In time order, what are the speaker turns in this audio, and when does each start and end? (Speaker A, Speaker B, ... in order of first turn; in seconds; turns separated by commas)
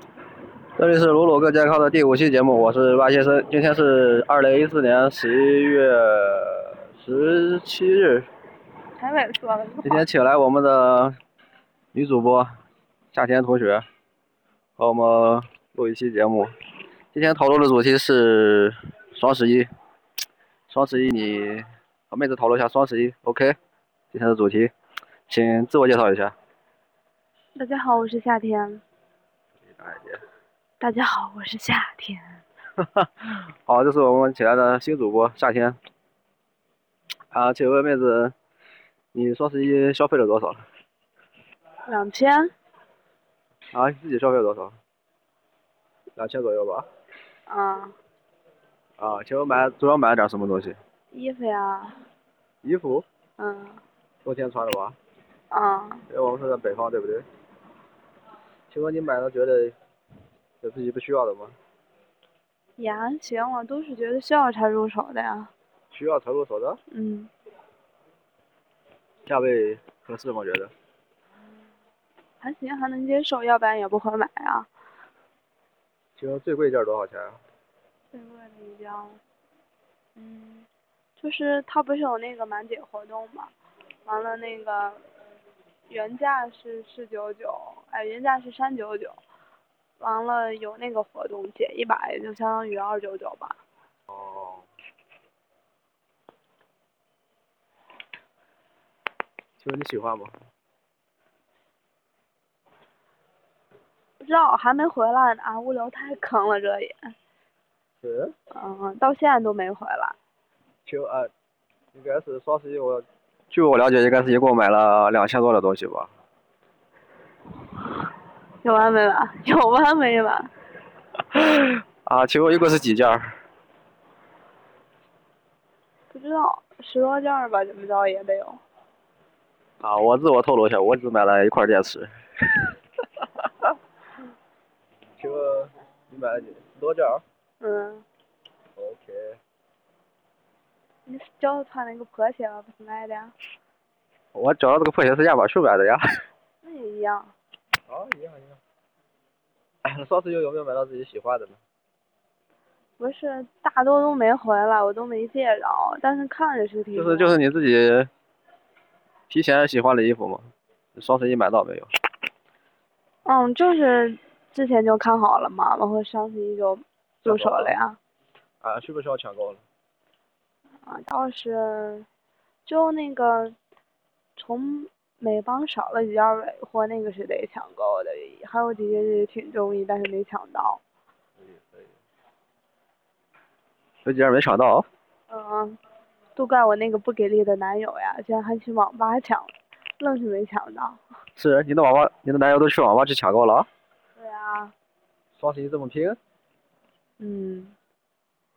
Speaker A: 0.8-8.3, Speaker B: 9.0-10.0, Speaker A: 9.8-11.2, Speaker A: 11.9-12.5, Speaker A: 13.1-13.8, Speaker A: 14.8-16.5, Speaker A: 17.1-19.7, Speaker A: 20.7-23.6, Speaker A: 24.1-24.7, Speaker A: 25.3-26.3, Speaker B: 27.6-28.8, Speaker A: 29.6-30.2, Speaker B: 30.8-32.4, Speaker A: 32.8-35.8, Speaker A: 37.3-38.3, Speaker A: 39.1-40.6, Speaker B: 41.9-42.5, Speaker A: 43.7-44.8, Speaker A: 46.1-46.9, Speaker B: 47.5-47.9, Speaker A: 49.0-50.8, Speaker B: 51.1-52.0, Speaker A: 52.6-53.0, Speaker B: 53.4-53.8, Speaker A: 54.2-55.0, Speaker B: 55.5-56.0, Speaker A: 56.1-57.2, Speaker A: 58.7-59.8, Speaker A: 60.6-61.6, Speaker B: 62.8-65.5, Speaker A: 65.9-66.8, Speaker B: 66.9-67.3, Speaker A: 69.2-70.7, Speaker B: 72.4-74.7, Speaker A: 76.2-77.4, Speaker B: 78.1-79.2, Speaker B: 80.2-80.7, Speaker B: 81.2-83.5, Speaker B: 84.0-85.0, Speaker B: 85.9-89.2, Speaker B: 90.0-93.6, Speaker A: 94.1-94.7, Speaker A: 99.6-100.3, Speaker B: 104.2-107.1, Speaker A: 108.0-108.3, Speaker B: 108.5-110.2, Speaker A: 110.8-111.3, Speaker A: 111.9-116.1, Speaker B: 118.6-120.5, Speaker A: 121.3-123.4, Speaker B: 126.1-128.6, Speaker A: 129.8-133.7, Speaker A: 135.2-137.2, Speaker B: 137.6-138.1, Speaker A: 138.8-139.4, Speaker B: 141.1-143.3, Speaker A: 144.3-146.2, Speaker B: 146.6-147.3, Speaker A: 147.9-148.6, Speaker A: 149.8-151.6, Speaker B: 153.0-157.3, Speaker A: 156.9-158.1, Speaker A: 159.3-161.9, Speaker B: 163.2-168.0, Speaker A: 167.2-167.8, Speaker A: 168.6-169.6, Speaker B: 170.8-172.1, Speaker B: 172.7-173.6, Speaker B: 174.3-180.8, Speaker A: 181.4-181.9, Speaker A: 184.0-184.9, Speaker B: 185.3-185.8, Speaker B: 186.3-191.0, Speaker A: 191.3-193.7, Speaker B: 194.2-194.7, Speaker A: 195.4-196.2, Speaker B: 197.2-197.8